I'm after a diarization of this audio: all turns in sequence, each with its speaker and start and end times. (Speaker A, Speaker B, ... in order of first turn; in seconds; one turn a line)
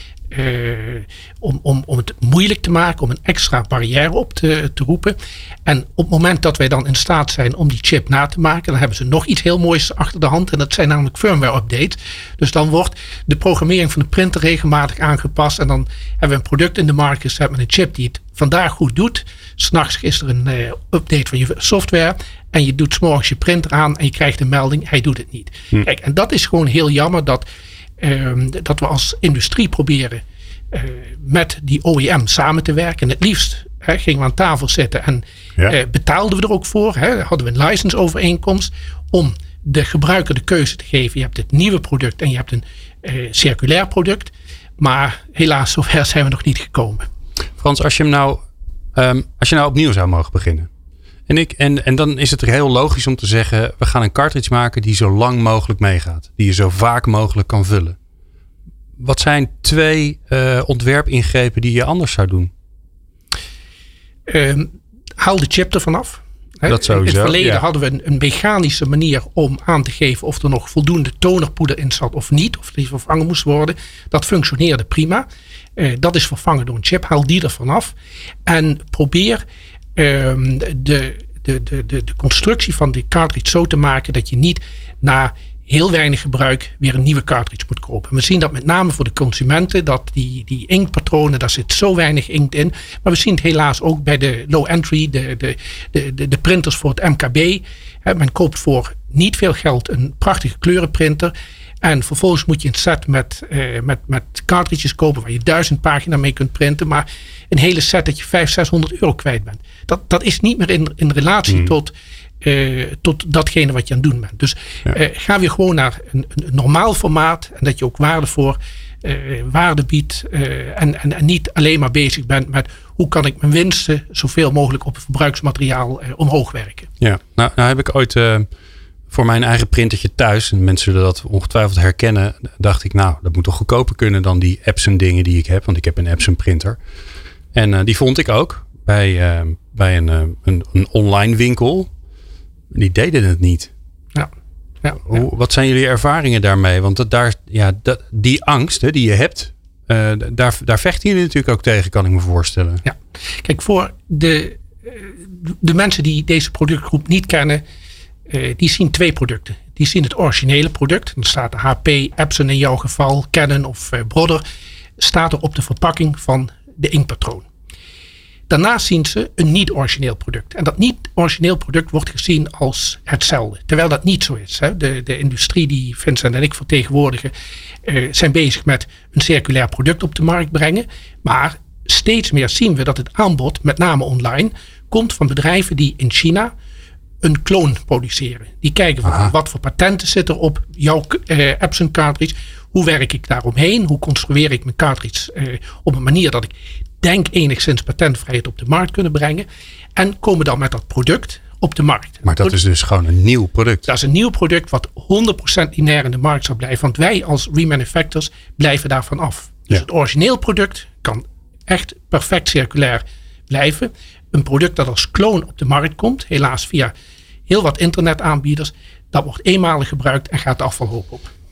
Speaker A: 0.3-27.4
Speaker A: 28.0-47.1
Speaker B: 47.6-48.4
Speaker B: 48.9-50.7
Speaker B: 51.3-58.0
Speaker B: 59.0-62.5
Speaker A: 64.3-75.2
Speaker B: 66.7-67.6
Speaker A: 75.8-77.9
Speaker A: 78.5-79.4
Speaker A: 80.0-126.9
Speaker B: 127.0-128.5
Speaker B: 129.1-136.8
Speaker B: 137.5-141.9
Speaker B: 142.7-143.7
Speaker A: 144.8-145.1
Speaker B: 145.1-152.8
Speaker A: 152.8-157.6
Speaker A: 158.3-164.4
Speaker A: 165.0-167.4
Speaker A: 168.5-177.3
Speaker A: 177.8-186.5
Speaker A: 187.2-202.6
Speaker B: 189.1-189.3
Speaker B: 202.2-203.9
Speaker A: 203.9-216.9
Speaker A: 217.5-221.3